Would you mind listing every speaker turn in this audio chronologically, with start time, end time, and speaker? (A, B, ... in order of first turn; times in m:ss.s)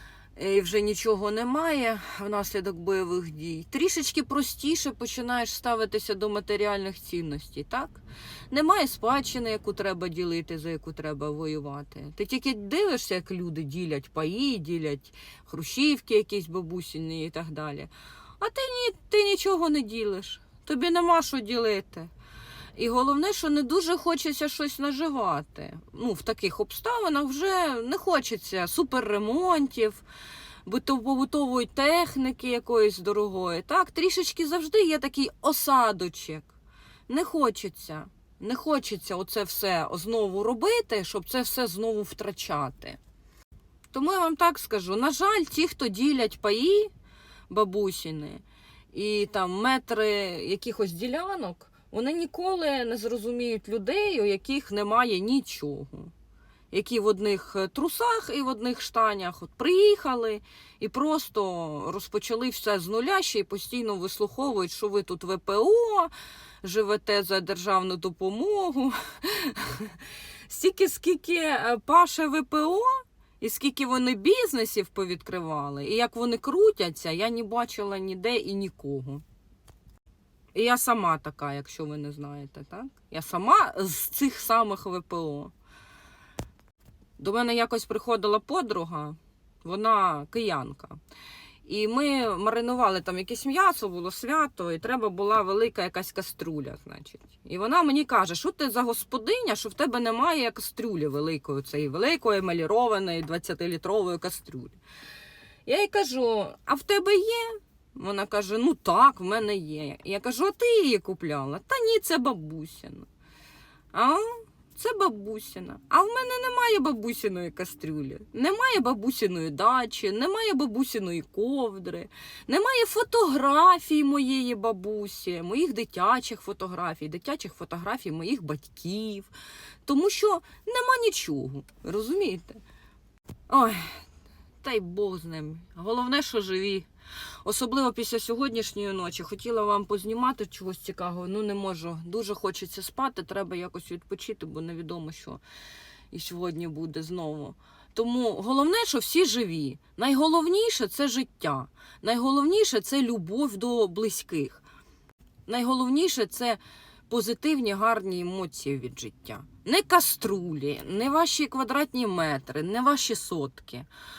0:00.4-0:22.1 A
0:22.8-0:30.0 A
0:30.6-0:36.5 A
0:37.1-0:43.0 A
0:43.9-0:46.9 A
0:47.5-0:56.1 A
0:56.7-1:19.2 A
1:20.6-1:25.5 A
1:27.2-1:31.0 A
1:31.6-1:44.8 A
1:45.7-1:53.1 A
1:53.9-2:09.3 A
2:09.9-2:12.6 A
2:13.5-2:14.0 A
2:14.6-2:16.9 A
2:17.4-2:25.4 A
2:26.1-2:34.6 A
2:35.5-2:43.9 A